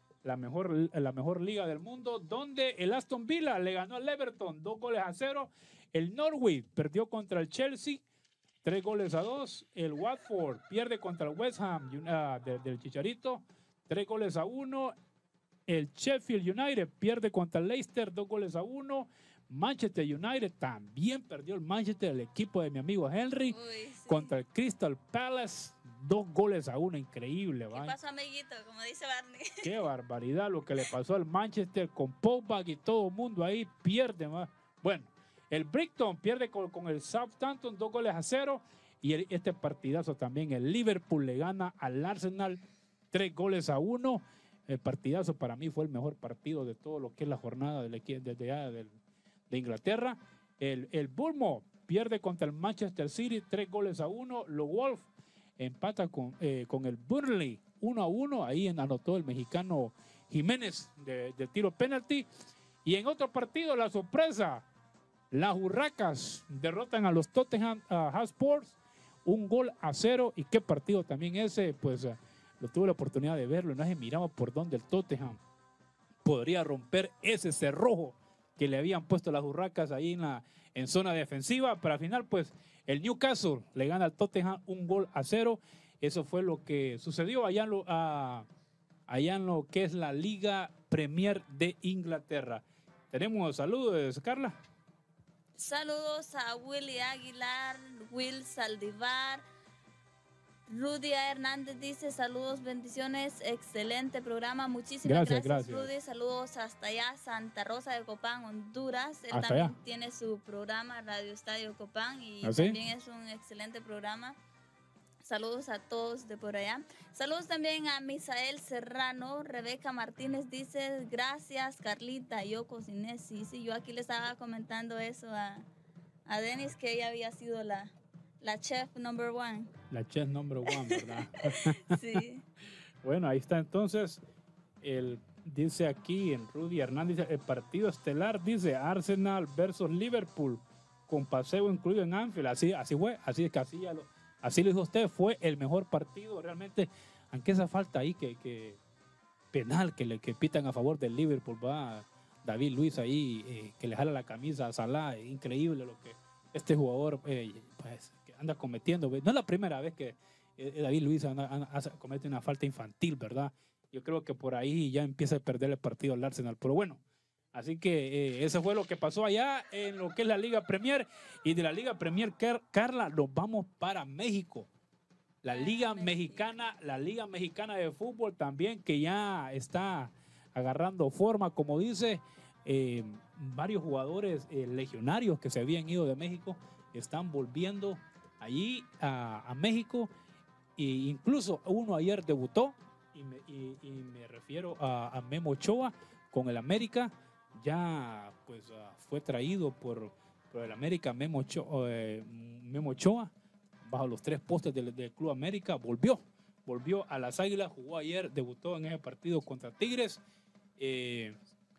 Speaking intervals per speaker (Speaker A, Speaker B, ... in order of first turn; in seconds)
Speaker A: 0.2-8.0, 8.6-14.9, 15.7-27.9, 29.6-42.6, 43.1-49.0, 49.5-55.1, 55.6-62.3, 62.8-64.7, 65.3-75.4, 76.2-88.5, 89.1-94.6, 105.0-105.9, 109.3-109.7, 112.4-112.8, 129.9-132.2, 133.0-134.2, 134.8-148.8, 149.5-167.0, 167.5-174.7, 175.4-190.1, 190.8-203.3, 203.9-210.2, 210.8-211.4
Speaker B: 23.5-24.3, 27.7-29.7, 95.6-99.5, 100.7-114.4, 115.2-125.7, 126.3-129.7, 130.7-132.4, 175.5-176.6